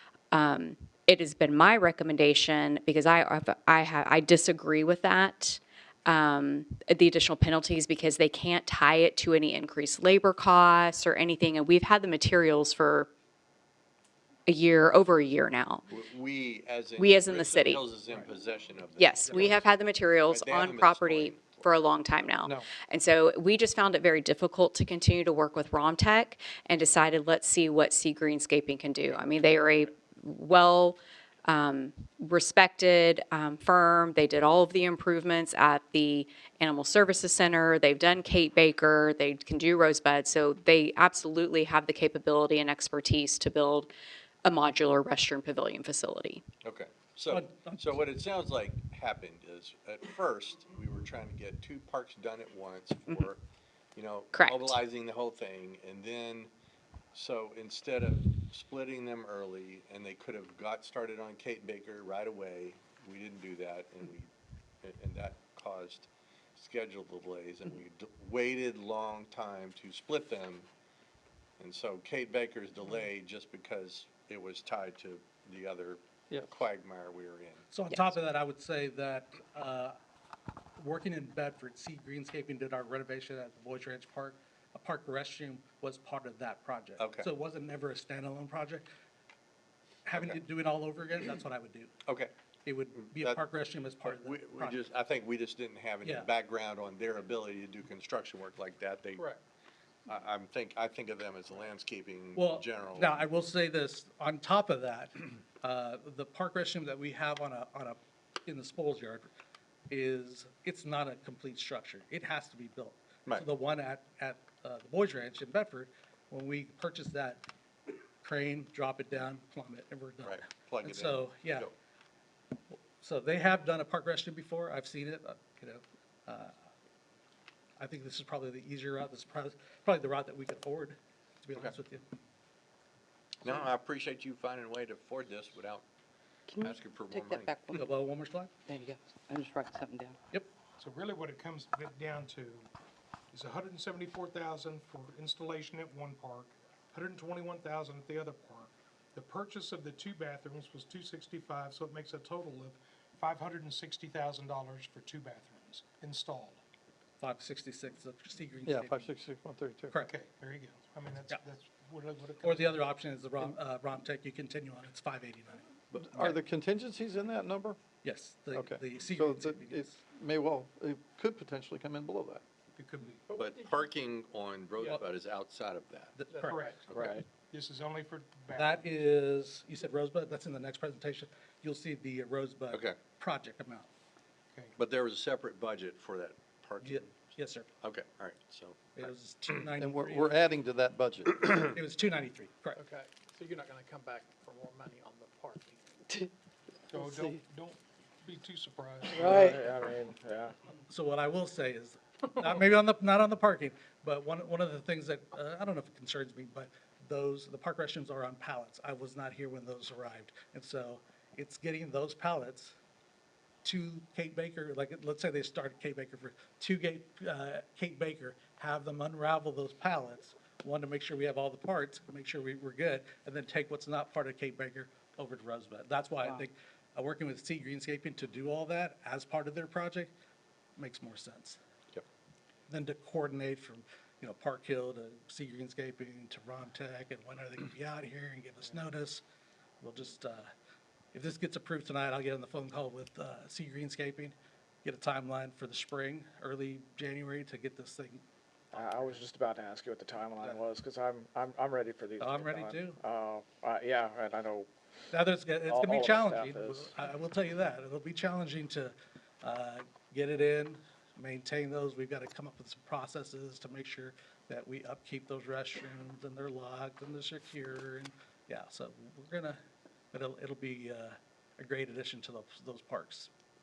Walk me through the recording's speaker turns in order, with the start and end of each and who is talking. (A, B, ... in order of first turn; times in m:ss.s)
0:00.3-0:13.1 A
0:14.5-0:15.8 A
0:15.9-0:19.7 B
0:17.0-0:17.8 A
0:19.0-0:43.9 A
0:20.3-0:21.6 B
0:44.4-0:46.4 A
0:46.6-0:53.4 B
0:47.3-0:48.0 C
0:53.9-0:56.5 B
0:54.3-0:54.8 A
0:57.1-1:04.3 B
1:04.8-1:10.7 B
1:11.6-1:17.6 B
1:17.7-1:19.9 C
1:20.8-1:28.9 C
1:27.0-1:27.3 B
1:30.0-1:31.9 C
1:30.1-1:30.4 B
1:32.0-1:32.3 B
1:32.6-1:34.8 C
1:32.9-1:33.4 B
1:34.0-1:39.3 B
1:36.0-1:36.3 C
1:40.1-1:43.2 B
1:42.3-1:49.3 C
1:49.9-1:57.4 C
1:58.2-2:01.7 C
2:00.2-2:01.7 B
2:02.7-2:06.6 C
2:07.8-2:12.1 C
2:13.4-2:15.8 B
2:16.5-2:17.9 D
2:16.6-2:17.6 B
2:17.7-2:18.5 C
2:18.7-2:20.2 D
2:20.8-2:22.7 E
2:23.3-2:36.6 E
2:37.2-2:39.1 C
2:38.6-2:40.0 F
2:40.0-2:42.8 E
2:42.4-2:46.4 C
2:45.9-2:47.8 F
2:48.0-2:50.0 C
2:48.5-2:52.4 F
2:52.7-2:53.2 E
2:53.3-2:56.2 B
2:56.2-2:56.6 C
2:56.4-2:56.9 E
2:56.9-2:57.2 G
2:57.5-2:59.0 E
2:58.5-3:03.9 C
3:02.7-3:03.0 B
3:04.8-3:07.3 B
3:06.8-3:07.7 C
3:07.8-3:09.1 B
3:09.0-3:10.4 C
3:09.7-3:11.7 F
3:11.5-3:12.8 C
3:13.0-3:15.8 H
3:16.9-3:17.4 D
3:16.9-3:19.4 E
3:19.1-3:20.5 G
3:19.2-3:19.8 D
3:20.9-3:32.8 C
3:33.6-3:50.1 C
3:50.8-3:51.6 C
3:52.7-3:59.2 C
3:59.8-4:00.5 C
4:01.1-4:08.2 C
4:08.7-4:14.7 G
4:08.7-4:09.1 C
4:12.2-4:13.0 C
4:15.1-4:29.6 C
4:15.7-4:16.9 G
4:30.1-4:33.3 C